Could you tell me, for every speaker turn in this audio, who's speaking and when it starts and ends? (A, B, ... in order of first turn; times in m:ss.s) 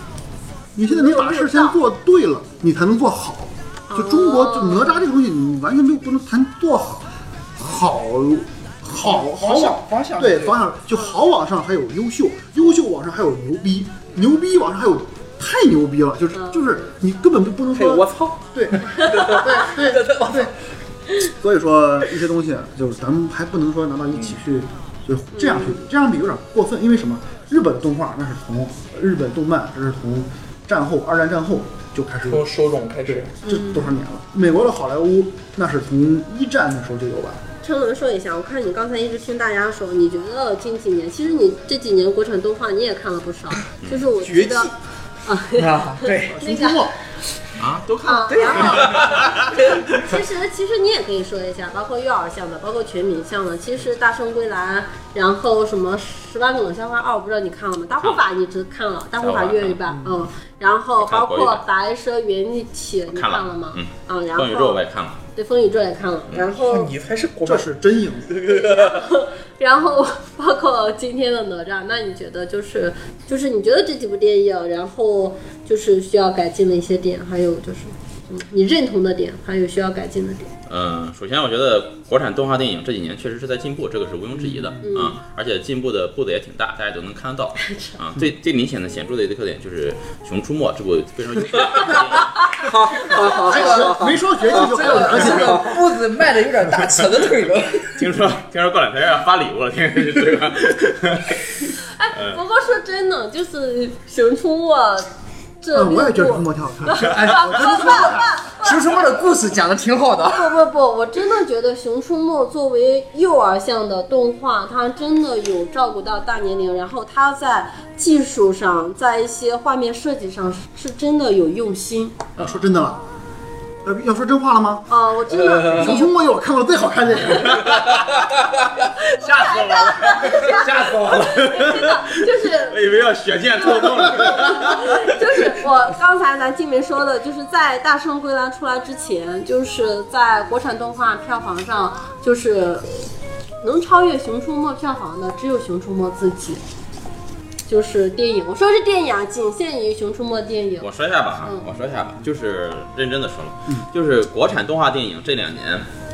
0:00.8-0:20.5 A
0:00.9-0:01.8 B
0:03.9-0:05.1 B
0:09.2-0:10.2 C
0:09.4-0:10.6 D
0:16.4-0:16.9 B
0:17.7-0:20.5 C
0:21.2-0:32.4 A
0:25.3-0:25.8 B
0:32.2-0:33.3 C
0:33.0-0:37.4 A
0:33.4-0:33.9 B
0:37.6-0:44.7 B
0:44.2-0:44.7 C
0:45.2-0:46.9 B
0:45.6-0:46.4 C
0:46.2-0:46.9 A
0:47.6-0:49.6 E
0:48.0-1:04.8 B
0:48.6-0:49.2 C
0:58.0-0:58.2 E
0:59.2-0:59.8 E
0:59.9-1:00.2 A
1:01.0-1:01.6 E
1:03.1-1:05.2 E
1:05.4-1:06.9 B
1:06.6-1:07.7 C
1:07.4-1:08.4 A
1:08.2-1:09.1 C
1:08.4-1:20.5 B
1:20.7-1:32.8 E
1:24.5-1:24.8 A
1:24.8-1:25.2 B
1:27.6-1:28.0 B
1:32.6-1:34.2 C
1:33.1-1:33.5 B
1:33.2-1:35.8 A
1:33.5-1:38.1 D
1:34.8-1:35.8 C
1:38.0-1:41.4 E
1:41.8-1:45.1 B
1:45.6-1:49.2 B
1:45.7-1:48.3 A
1:47.4-1:50.6 D
1:50.3-2:02.2 B
2:02.4-2:03.0 A
2:03.8-2:04.9 A
2:04.9-2:06.1 B
2:05.5-2:08.0 A
2:07.3-2:07.6 B
2:07.5-2:15.5 E
2:08.8-2:22.9 B
2:23.6-2:26.6 B
2:27.7-2:30.9 B
2:30.8-2:35.9 E